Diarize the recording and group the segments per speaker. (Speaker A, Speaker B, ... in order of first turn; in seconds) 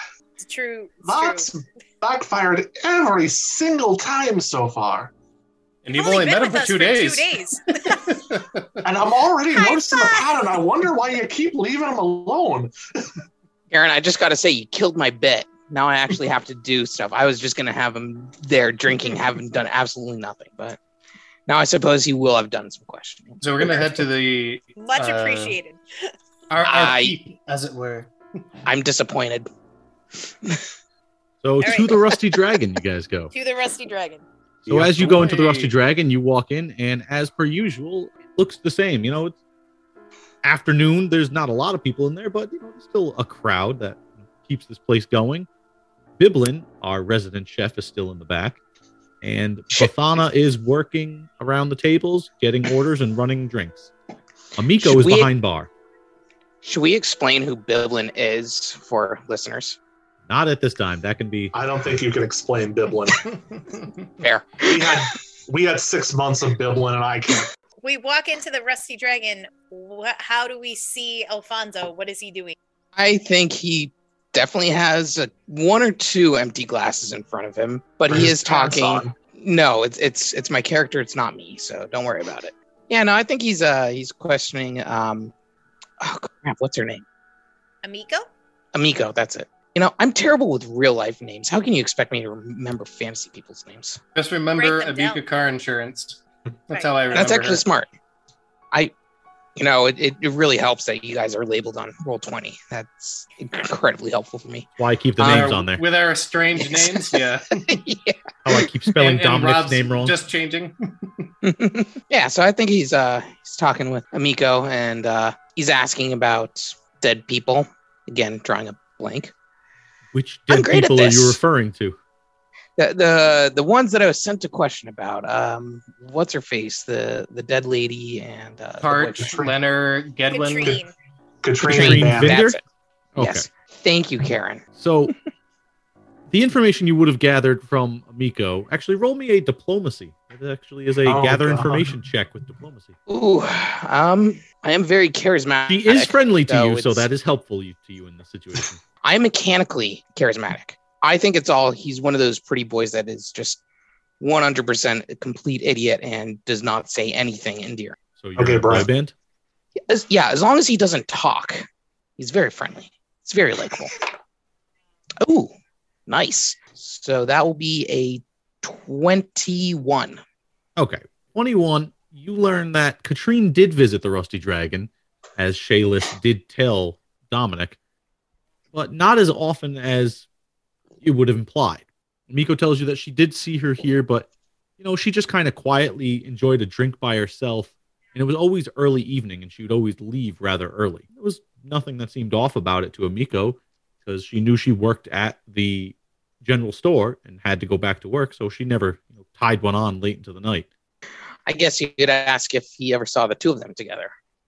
Speaker A: 0.4-1.5, 5.9-8.2, 9.5-10.5, 24.8-26.1, 31.6-31.9, 33.3-34.2, 67.8-72.6, 87.8-88.3, 94.6-95.2, 130.3-130.9
Speaker B: 1.0-5.1, 8.8-12.7, 34.7-35.3, 61.5-63.3, 64.7-67.5, 78.1-79.2, 129.2-129.6, 131.4-132.4, 141.0-141.9, 158.4-158.9
Speaker C: 5.8-7.4, 7.9-8.7, 23.4-25.6, 26.5-28.1, 35.0-35.7, 94.2-97.6, 105.2-107.7, 109.0-111.3, 128.8-130.8
Speaker D: 13.7-20.8, 21.5-23.9, 26.6-27.1, 28.6-29.5, 54.8-55.3, 56.6-59.8, 64.2-65.1, 73.0-85.3, 86.0-87.0, 88.7-94.0, 97.1-97.9, 99.6-104.7, 105.2-105.6, 106.6-108.6, 111.4-119.3, 120.5-121.4, 122.8-129.3, 131.6-132.6, 133.2-134.6, 143.1-147.1, 149.0-153.6, 154.2-158.0, 159.9-161.7, 162.2-164.0, 165.2-165.5, 166.1-170.2, 201.5-204.1
Speaker E: 31.4-33.3, 34.7-39.4, 40.4-45.5, 46.2-48.6, 49.2-53.9, 54.6-55.7, 60.3-61.5, 104.8-105.8, 108.4-110.2, 120.1-122.0, 131.6-132.6, 133.2-133.5, 134.8-135.1, 136.3-143.0, 145.7-148.8, 158.2-159.1, 170.8-177.8, 178.7-180.3, 181.0-184.3, 184.8-200.7